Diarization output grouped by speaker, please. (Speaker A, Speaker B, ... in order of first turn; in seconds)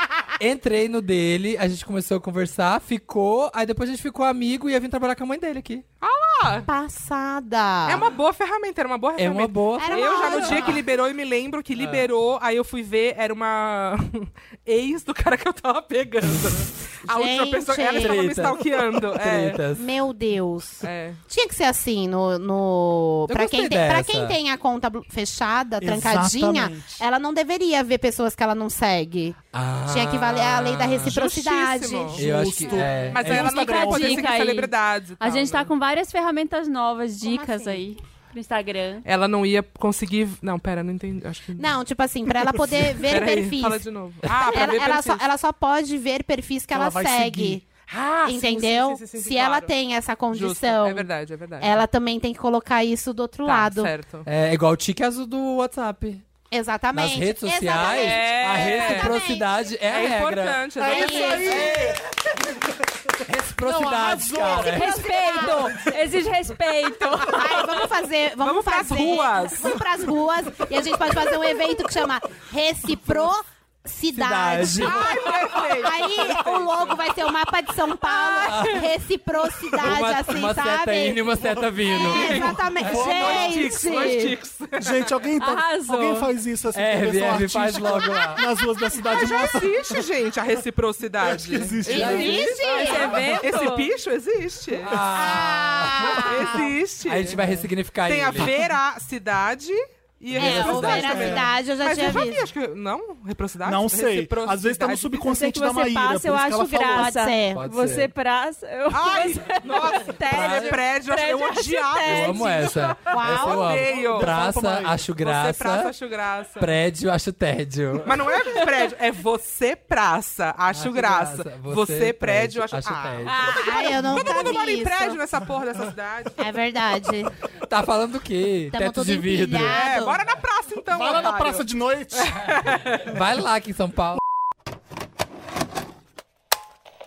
Speaker A: 0.4-5.8, 9.2-10.8, 11.8-12.1, 18.0-18.6, 19.1-19.9, 23.3-24.4, 29.5-31.2, 32.2-33.5, 54.2-56.2, 56.9-60.6, 61.4-61.9, 63.3-65.0, 74.1-75.0, 78.5-78.8, 79.8-83.5, 86.7-88.4, 91.9-92.2, 94.9-96.3, 97.0-98.5, 100.4-101.4, 107.5-108.1, 110.3-110.8, 112.0-115.9, 116.6-118.1, 120.7-123.5, 127.7-129.8, 133.1-134.2
Speaker B: 6.0-6.7, 7.9-19.6, 20.8-21.2, 31.0-32.2, 33.1-35.7, 39.0-41.7, 43.0-45.2, 47.9-49.7, 50.3-51.8, 53.4-54.2, 57.9-59.2, 59.8-61.6, 68.4-69.8, 74.7-77.0, 82.0-85.1, 89.0-94.9, 96.1-97.5, 98.0-105.4, 108.9-114.4, 115.2-116.7, 118.1-126.4, 129.7-133.0
Speaker C: 6.7-8.1, 9.8-10.8, 17.1-18.4, 19.7-32.2, 37.3-37.6, 41.6-47.6, 48.2-53.9, 56.5-59.6, 60.8-61.6, 64.9-65.6, 67.2-81.4, 82.0-84.3, 92.1-93.2, 95.2-96.5, 100.3-102.5, 106.9-107.7, 113.1-113.8, 123.3-125.2, 126.4-127.3, 128.7-130.2
Speaker D: 25.8-27.0, 32.2-34.3, 46.7-47.6, 60.8-62.0, 63.6-64.8, 82.9-83.4, 84.8-90.0, 91.2-92.6, 103.6-107.1, 113.9-115.0, 130.9-132.4
Speaker E: 33.3-39.0, 64.7-67.7, 83.9-84.2, 85.4-86.3, 91.9-93.9, 105.4-112.7